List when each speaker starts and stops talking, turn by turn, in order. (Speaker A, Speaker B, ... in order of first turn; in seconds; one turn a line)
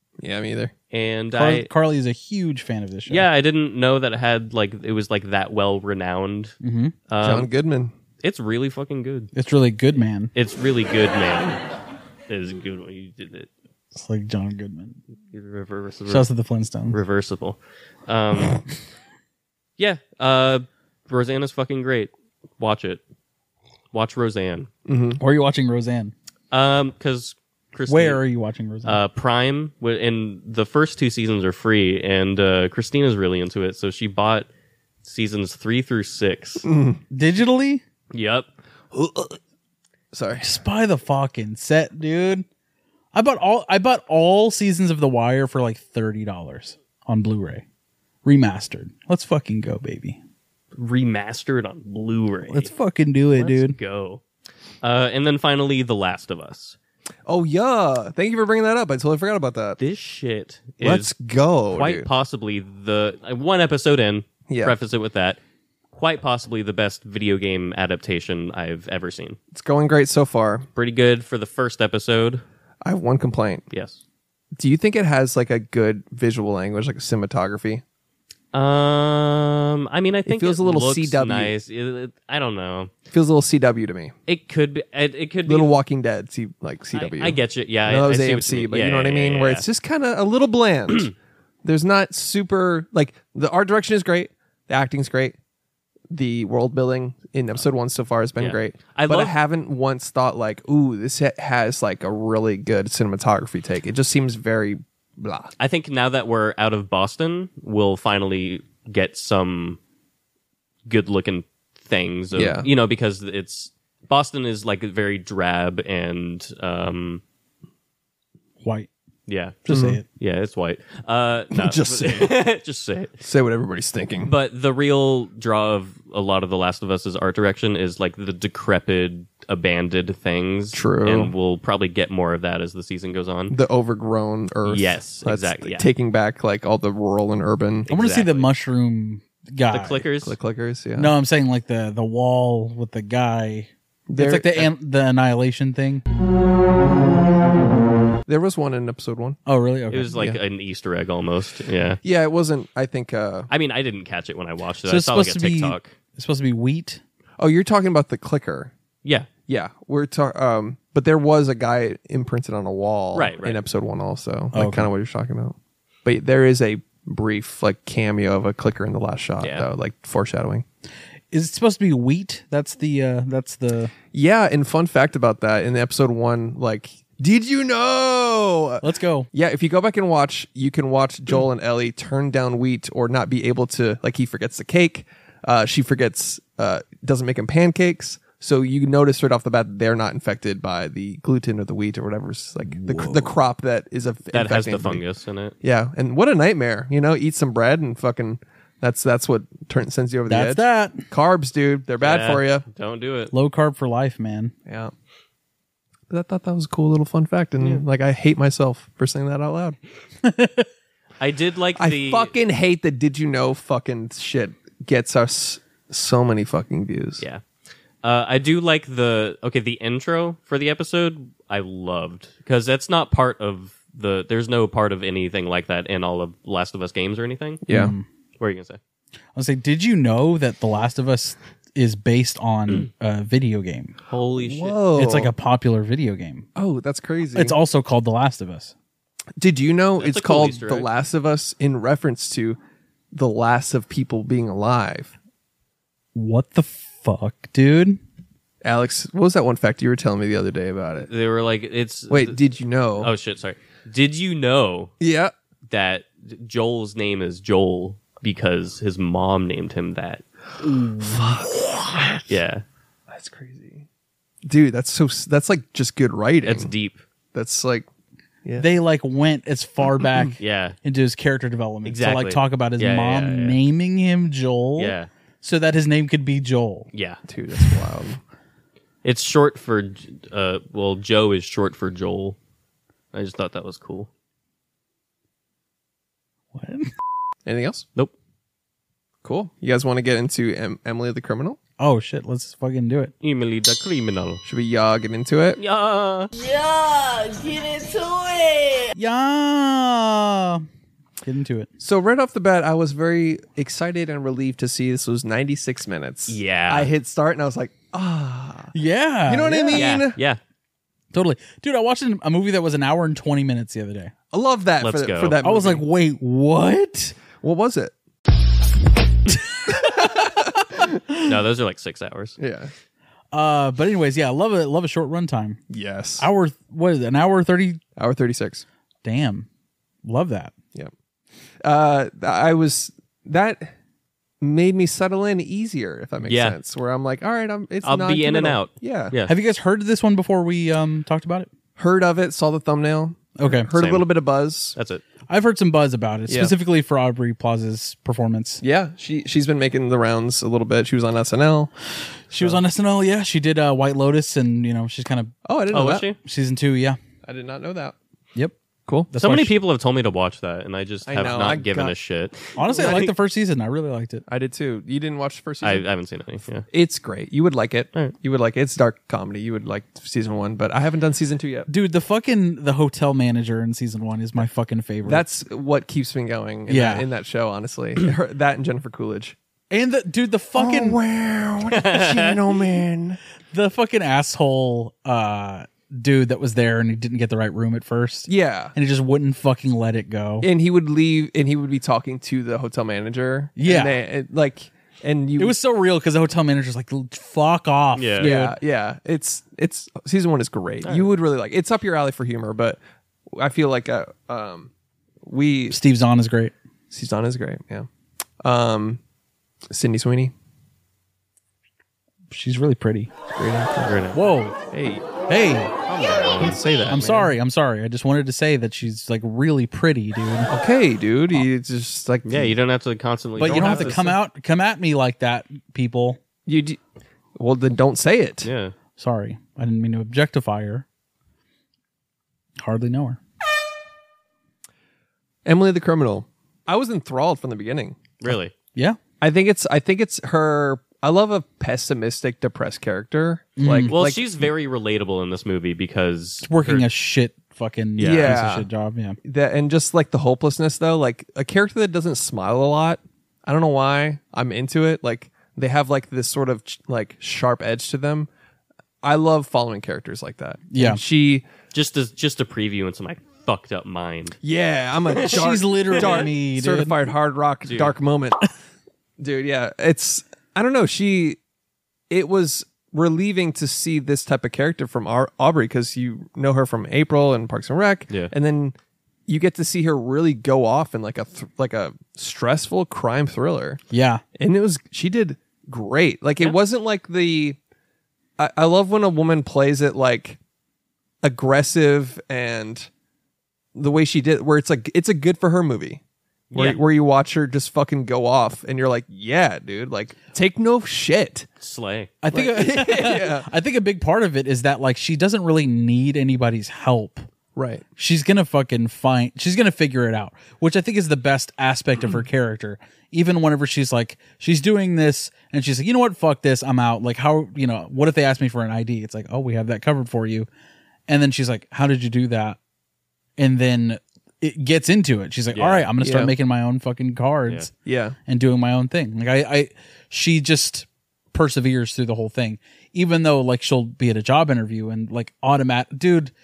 Speaker A: 0.2-0.7
Speaker B: 0.9-1.7
Speaker C: 1.3-3.3
Speaker B: 3.1-6.5
Speaker C: 6.6-7.0
Speaker B: 7.1-7.5
Speaker A: 7.2-7.9
Speaker B: 8.2-9.3
Speaker C: 9.3-10.3
Speaker B: 10.3-11.6
Speaker B: 12.3-13.5
Speaker C: 13.9-15.0
Speaker B: 15.3-16.3
Speaker C: 16.1-17.0
Speaker B: 16.9-18.7
Speaker B: 19.8-23.0
Speaker B: 23.9-24.7
Speaker A: 24.9-25.2
Speaker C: 25.2-26.1
Speaker B: 26.5-28.2
Speaker C: 27.9-29.0
Speaker B: 28.9-34.5
Speaker B: 35.0-36.6
Speaker A: 36.6-37.0
Speaker C: 37.1-37.8
Speaker B: 38.1-38.5
Speaker A: 38.9-39.4
Speaker A: 40.1-40.6
Speaker C: 40.4-42.5
Speaker C: 43.1-47.6
Speaker C: 48.2-50.2
Speaker B: 50.8-52.7
Speaker C: 52.5-53.8
Speaker B: 53.4-54.2
Speaker B: 54.8-56.8
Speaker A: 57.3-59.8
Speaker B: 59.8-61.1
Speaker A: 60.8-62.1
Speaker B: 61.7-65.4
Speaker A: 64.5-64.8
Speaker B: 65.9-69.4
Speaker A: 69.5-70.7
Speaker B: 70.8-72.4
Speaker A: 72.8-73.7
Speaker B: 73.7-74.0
Speaker A: 74.6-77.8
Speaker B: 78.5-82.9
Speaker A: 80.3-81.5
Speaker A: 83.1-84.1
Speaker B: 84.3-85.8
Speaker A: 85.5-91.1
Speaker B: 86.9-89.7
Speaker A: 91.6-95.4
Speaker A: 96.1-105.5
Speaker B: 98.4-99.4
Speaker B: 105.6-109.8
Speaker B: 110.9-117.2
Speaker A: 112.3-112.7
Speaker C: 118.6-118.9
Speaker B: 119.3-123.1
Speaker C: 119.7-120.0
Speaker A: 119.7-120.0
Speaker A: 121.5-122.3
Speaker A: 123.2-124.3
Speaker B: 124.2-133.6
Speaker A: 130.7-131.3
Speaker A: 133.5-137.9
Speaker B: 134.7-135.9
Speaker B: 137.9-138.5
Speaker C: 137.9-140.0
Speaker B: 139.7-140.3
Speaker A: 140.2-141.1
Speaker C: 141.0-146.0
Speaker A: 144.1-144.7
Speaker A: 148.3-149.4
Speaker C: 149.5-150.3
Speaker B: 149.9-152.0
Speaker A: 152.0-153.5
Speaker B: 153.5-155.9
Speaker C: 154.9-157.0
Speaker A: 157.4-158.7
Speaker A: 159.5-170.7
Speaker B: 163.1-163.6
Speaker C: 164.5-164.9
Speaker B: 169.4-169.7
Speaker C: 171.3-173.9
Speaker A: 174.1-195.0
Speaker C: 178.8-179.3
Speaker C: 192.7-193.4
Speaker B: 194.3-195.6
Speaker A: 195.6-202.6
Speaker C: 200.3-201.1
Speaker B: 202.0-203.3
Speaker C: 203.3-204.5
Speaker A: 204.7-204.9
Speaker A: 206.1-209.8
Speaker C: 210.2-210.7
Speaker B: 211.2-212.3
Speaker A: 211.8-217.2
Speaker B: 218.0-227.6
Speaker A: 227.7-227.9
Speaker C: 227.7-228.1
Speaker B: 228.4-228.8
Speaker C: 229.3-234.0
Speaker B: 234.1-234.8
Speaker A: 234.4-235.3
Speaker C: 234.9-236.5
Speaker A: 236.6-237.6
Speaker C: 237.3-238.7
Speaker A: 239.4-242.6
Speaker B: 240.0-240.9
Speaker A: 243.1-245.1
Speaker C: 246.2-248.0
Speaker A: 248.6-251.1
Speaker B: 251.1-252.4
Speaker A: 252.1-253.1
Speaker B: 253.0-254.9
Speaker A: 255.0-255.3
Speaker B: 255.7-260.2
Speaker C: 260.6-261.5
Speaker A: 261.0-262.2
Speaker B: 262.3-262.6
Speaker A: 263.1-263.9
Speaker A: 264.4-266.7
Speaker B: 266.4-267.0
Speaker A: 267.3-267.9
Speaker C: 268.6-276.9
Speaker B: 270.4-270.8
Speaker B: 271.9-273.6
Speaker B: 274.8-275.1
Speaker B: 276.9-277.2
Speaker A: 277.3-278.2
Speaker B: 279.0-282.4
Speaker B: 283.1-284.1
Speaker C: 286.5-286.9
Speaker A: 287.5-287.9
Speaker A: 289.2-291.6
Speaker C: 291.8-293.1
Speaker B: 293.2-294.4
Speaker A: 294.4-295.6
Speaker B: 295.6-296.3
Speaker C: 298.9-300.7
Speaker C: 301.2-301.7
Speaker A: 301.8-308.7
Speaker B: 306.3-306.9
Speaker C: 308.7-310.1
Speaker A: 309.3-310.2
Speaker B: 309.7-310.4
Speaker C: 311.1-314.1
Speaker A: 314.3-315.9
Speaker B: 314.8-315.4
Speaker C: 315.4-317.2
Speaker A: 317.4-317.9
Speaker C: 319.7-320.0
Speaker A: 319.9-320.9
Speaker B: 321.2-322.4
Speaker A: 322.4-322.7
Speaker C: 323.3-325.6
Speaker A: 325.7-326.3
Speaker C: 326.2-327.8
Speaker A: 328.0-328.6
Speaker C: 329.0-329.5
Speaker C: 330.0-330.5
Speaker A: 331.6-333.7
Speaker A: 334.4-339.1
Speaker B: 336.2-336.6
Speaker B: 337.8-339.4
Speaker C: 339.3-341.5
Speaker A: 341.8-344.8
Speaker C: 343.4-343.7
Speaker B: 343.7-344.1
Speaker B: 344.8-345.0
Speaker C: 345.3-348.6
Speaker A: 346.3-346.5
Speaker A: 348.6-351.7
Speaker C: 352.3-355.3
Speaker A: 355.4-356.1
Speaker B: 355.7-356.2
Speaker C: 356.2-357.0
Speaker A: 357.3-357.9
Speaker C: 359.1-359.5
Speaker B: 359.2-363.1
Speaker A: 361.1-361.9
Speaker C: 362.6-364.2
Speaker A: 364.3-365.8
Speaker B: 365.6-366.7
Speaker A: 366.7-371.7
Speaker C: 371.7-375.2
Speaker A: 375.1-379.4
Speaker C: 376.7-377.1
Speaker C: 379.7-381.0
Speaker A: 380.6-383.2
Speaker B: 381.7-382.3
Speaker C: 383.5-390.5
Speaker A: 388.3-388.7
Speaker A: 390.4-395.6
Speaker C: 393.6-394.0
Speaker C: 395.4-398.6
Speaker B: 398.0-398.3
Speaker A: 398.2-402.8
Speaker A: 403.3-404.7
Speaker A: 405.2-405.8
Speaker C: 405.7-406.5
Speaker A: 406.9-407.9
Speaker A: 408.4-409.0
Speaker A: 409.7-410.3
Speaker C: 412.3-413.1
Speaker A: 413.3-413.9
Speaker B: 413.9-414.2
Speaker C: 414.1-414.6
Speaker A: 414.7-415.0
Speaker C: 415.3-415.7
Speaker B: 415.9-416.9
Speaker A: 416.4-417.3
Speaker C: 416.9-420.5
Speaker A: 420.5-422.6
Speaker B: 422.3-424.0
Speaker C: 423.4-426.2
Speaker A: 423.4-424.2
Speaker A: 426.5-426.8
Speaker A: 427.4-428.5
Speaker B: 428.4-428.7
Speaker C: 429.0-430.9
Speaker C: 432.6-433.2
Speaker A: 435.4-438.0
Speaker B: 438.2-438.5
Speaker A: 439.2-444.3
Speaker C: 443.6-444.0
Speaker B: 443.9-446.9
Speaker C: 446.4-449.2
Speaker B: 448.0-448.6
Speaker A: 448.0-448.6
Speaker A: 449.2-458.3
Speaker A: 459.0-461.4
Speaker C: 460.7-461.0
Speaker B: 461.7-464.4
Speaker A: 464.4-468.5
Speaker C: 465.2-467.0
Speaker B: 465.9-466.3
Speaker B: 467.7-467.9
Speaker A: 469.2-471.4
Speaker A: 472.1-478.8
Speaker A: 479.3-483.8
Speaker C: 483.9-484.2
Speaker A: 484.4-487.6
Speaker A: 488.4-490.4
Speaker A: 491.2-492.9
Speaker A: 493.8-496.0
Speaker B: 496.5-496.8
Speaker A: 496.6-501.5
Speaker B: 501.6-502.1
Speaker C: 502.2-507.2
Speaker A: 502.3-503.5
Speaker A: 507.6-507.8
Speaker C: 508.0-520.5
Speaker C: 521.1-522.6
Speaker C: 523.4-527.7
Speaker B: 525.5-525.9
Speaker A: 526.0-526.3
Speaker A: 527.9-528.2
Speaker C: 528.3-536.3